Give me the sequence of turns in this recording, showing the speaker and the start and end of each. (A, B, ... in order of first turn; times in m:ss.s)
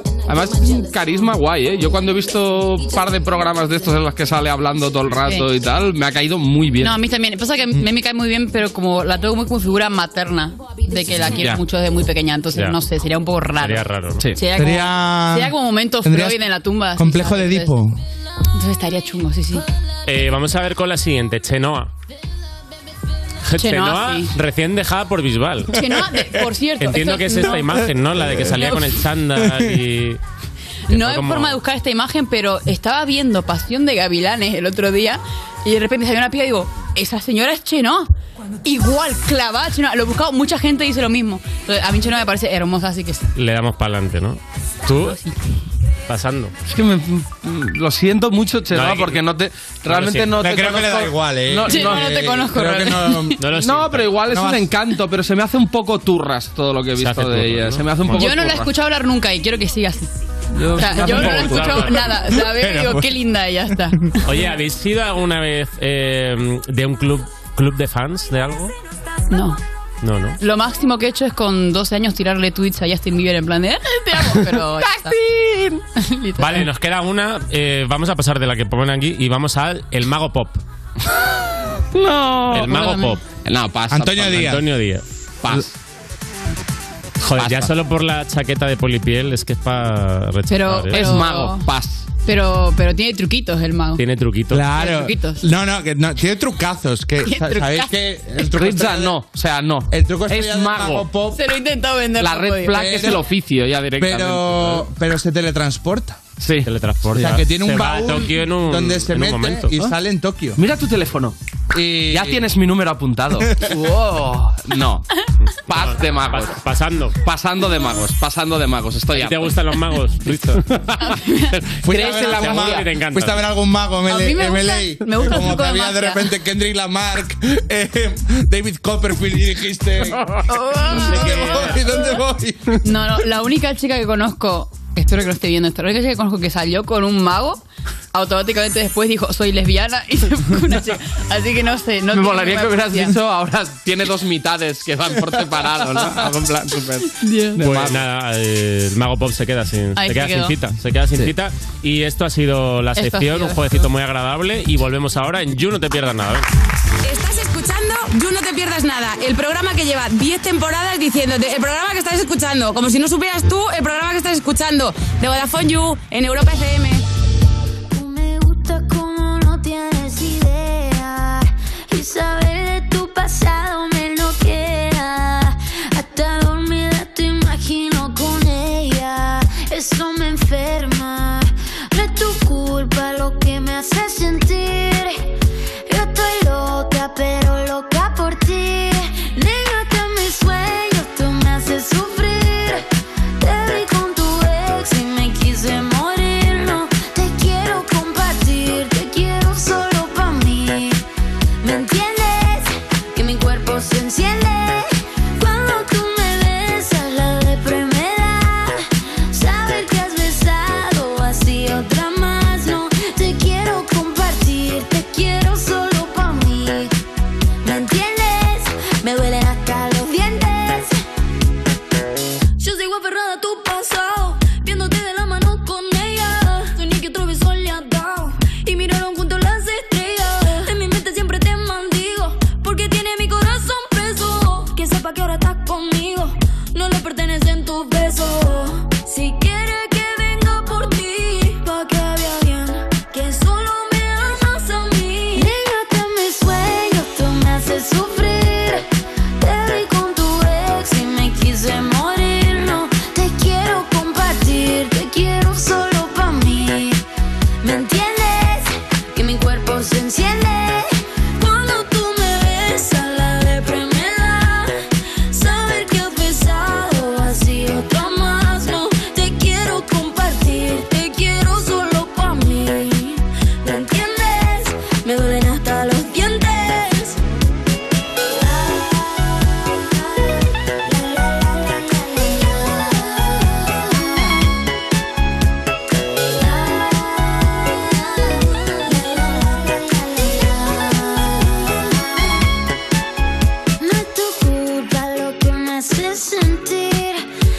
0:00.3-0:07.0 A
0:05.2-0:05.5 B
0:06.8-0:17.7 B
0:12.5-0:12.8 C
0:13.6-0:14.3 C
0:14.5-0:16.4 D
0:17.0-0:18.0 D
0:18.5-0:19.7 B
0:20.0-0:21.9 C
0:23.4-0:25.8 C
0:23.6-0:24.3 B
0:25.7-0:27.8 B
0:26.8-0:30.2 C
0:28.6-0:28.8 B
0:29.4-0:29.8 D
0:30.9-0:31.6 C
0:30.9-0:38.1 B
0:38.6-0:43.3 B
0:43.4-0:45.2 C
0:45.1-0:45.3 B
0:46.1-0:46.5 C
0:46.7-0:52.3 A
0:48.7-0:49.2 C
0:49.9-0:50.4 C
0:50.4-0:53.4 D
0:51.6-0:53.3 B
0:53.4-0:54.2 C
0:53.6-0:58.7 A
0:54.3-0:54.7 D
0:57.0-0:58.3 C
0:58.1-1:00.1 B
1:00.5-1:01.8 A
1:00.7-1:04.0 B
1:00.8-1:02.2 C
1:02.3-1:03.1 D
1:04.2-1:08.7 C
1:09.3-1:09.6 B
1:10.0-1:10.4 C
1:10.4-1:15.1 B
1:14.3-1:15.8 A
1:16.0-1:16.7 B
1:16.4-1:20.6 C
1:21.9-1:22.7 A
1:22.5-1:23.2 C
1:22.7-1:23.2 B
1:23.4-1:24.5 A
1:23.9-1:24.6 D
1:24.2-1:25.0 C
1:25.4-1:25.7 A
1:27.2-1:31.2 C
1:27.4-1:27.7 A
1:30.5-1:31.7 B
1:30.9-1:32.1 A
1:32.2-1:34.0 B
1:34.0-1:34.8 C
1:34.5-1:39.2 D
1:34.8-1:35.4 B
1:37.2-1:37.9 B
1:38.5-1:41.1 A
1:39.9-1:41.4 D
1:41.3-1:43.1 B
1:42.2-1:44.9 A
1:42.7-1:43.2 D
1:44.0-1:46.2 D
1:46.4-1:47.4 A
1:46.6-1:49.8 C
1:47.2-1:50.6 D
1:50.6-1:51.4 A
1:51.7-1:52.4 D
1:52.1-1:55.0 A
1:55.7-1:57.2 C
1:55.7-1:56.6 A
1:57.2-1:59.5 A
1:59.1-2:00.6 C
2:00.7-2:01.0 A
2:01.0-2:01.6 B
2:01.8-2:10.3 D
2:01.8-2:03.4 C
2:01.9-2:02.8 A
2:04.1-2:06.3 B
2:10.5-2:12.0 B
2:10.8-2:11.9 C
2:10.9-2:12.8 D
2:12.8-2:17.6 B
2:18.1-2:23.1 B
2:22.1-2:28.0 A
2:27.0-2:27.6 B
2:27.6-2:36.5 C
2:30.0-2:30.6 B
2:33.0-2:33.6 B
2:37.0-2:47.0 E
2:47.9-3:05.3 F
3:05.9-3:12.9 F
3:13.4-3:21.0 F
3:21.6-3:36.9 F
3:37.6-3:41.0 F
3:42.6-4:08.9 F
4:09.4-4:17.0 F
4:17.6-4:37.2 F
4:38.4-4:44.4 F
4:46.3-4:52.2 F
4:53.8-4:57.3 F